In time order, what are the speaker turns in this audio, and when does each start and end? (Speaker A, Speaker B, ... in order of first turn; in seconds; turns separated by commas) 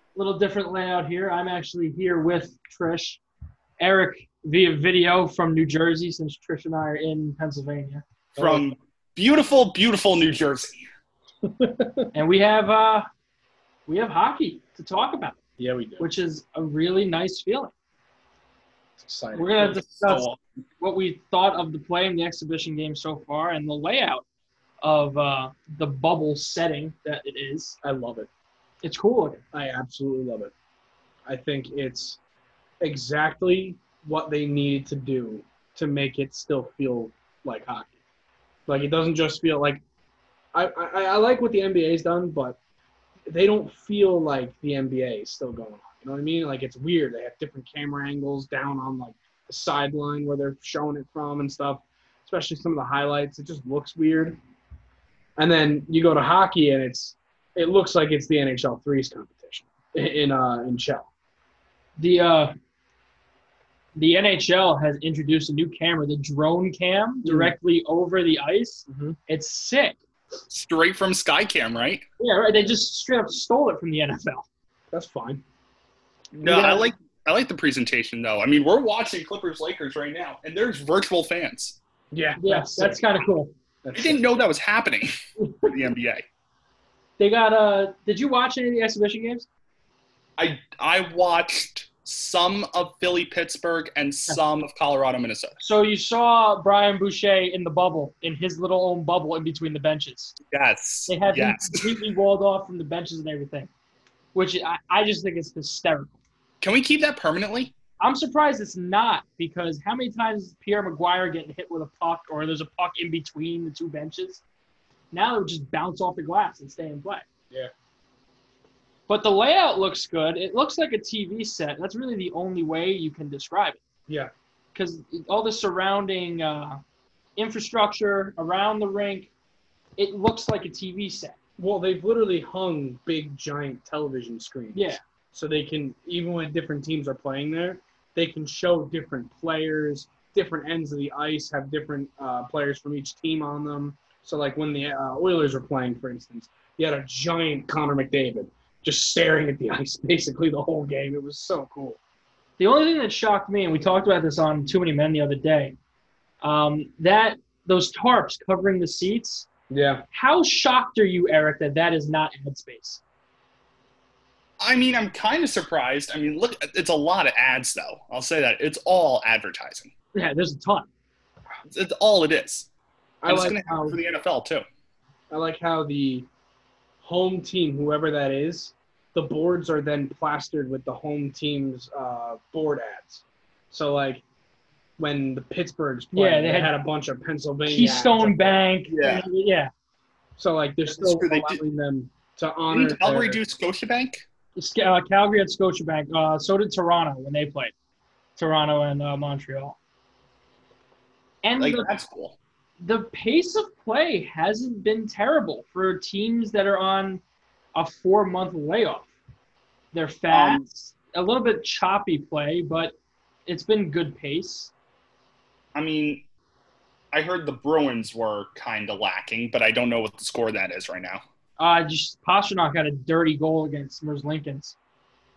Speaker A: 0.1-3.2, Speaker A: 3.8-8.0, Speaker B: 8.4-8.7, Speaker C: 8.4-10.8, Speaker B: 11.5-12.1, Speaker A: 12.1-13.1, Speaker A: 13.9-15.4, Speaker B: 15.6-16.1, Speaker A: 16.0-17.7, Speaker B: 19.0-20.2, Speaker A: 19.4-20.3, Speaker C: 20.1-20.3, Speaker A: 20.8-24.2, Speaker A: 24.8-27.8, Speaker B: 27.8-28.3, Speaker A: 28.8-29.4, Speaker B: 29.5-30.5, Speaker B: 31.3-32.2, Speaker B: 32.8-38.0, Speaker B: 38.7-39.8, Speaker B: 40.5-42.6, Speaker B: 43.3-54.4, Speaker B: 55.4-61.1, Speaker A: 62.0-62.5, Speaker A: 64.0-70.0, Speaker B: 67.2-67.5, Speaker B: 68.9-69.2, Speaker C: 70.5-72.0, Speaker A: 72.2-74.5, Speaker B: 74.9-75.4, Speaker C: 76.4-81.8, Speaker A: 76.4-76.9, Speaker B: 82.1-83.0, Speaker A: 82.4-83.5, Speaker B: 83.8-84.2, Speaker C: 84.0-86.2, Speaker A: 85.4-85.7, Speaker A: 87.2-89.5, Speaker C: 90.4-95.6, Speaker A: 95.6-100.4, Speaker C: 100.5-102.0, Speaker A: 101.1-103.7, Speaker A: 104.3-106.1, Speaker C: 106.6-107.8, Speaker A: 108.0-114.4, Speaker A: 115.1-117.3, Speaker A: 119.1-123.8, Speaker A: 124.8-126.8, Speaker A: 127.4-129.3, Speaker A: 130.0-131.4, Speaker B: 131.6-152.0, Speaker A: 134.8-135.0, Speaker A: 152.6-155.8, Speaker A: 156.4-159.5, Speaker B: 159.7-160.0, Speaker A: 160.1-163.0, Speaker C: 164.6-169.9, Speaker A: 170.2-170.9, Speaker C: 171.7-172.7, Speaker B: 173.2-174.0, Speaker C: 173.3-174.6, Speaker B: 175.3-176.3, Speaker B: 177.0-184.2, Speaker B: 185.0-188.6, Speaker A: 186.1-186.7, Speaker A: 187.7-189.7, Speaker C: 188.9-189.2, Speaker B: 190.4-193.4, Speaker C: 190.9-191.6, Speaker C: 192.7-194.2, Speaker A: 194.6-197.7, Speaker A: 198.4-199.8, Speaker A: 201.4-201.9, Speaker C: 201.6-202.4, Speaker A: 202.8-207.2, Speaker A: 207.8-209.1, Speaker A: 209.9-212.9, Speaker C: 210.3-210.7, Speaker A: 213.5-214.7, Speaker C: 215.7-216.2, Speaker C: 217.1-221.2, Speaker A: 221.6-224.8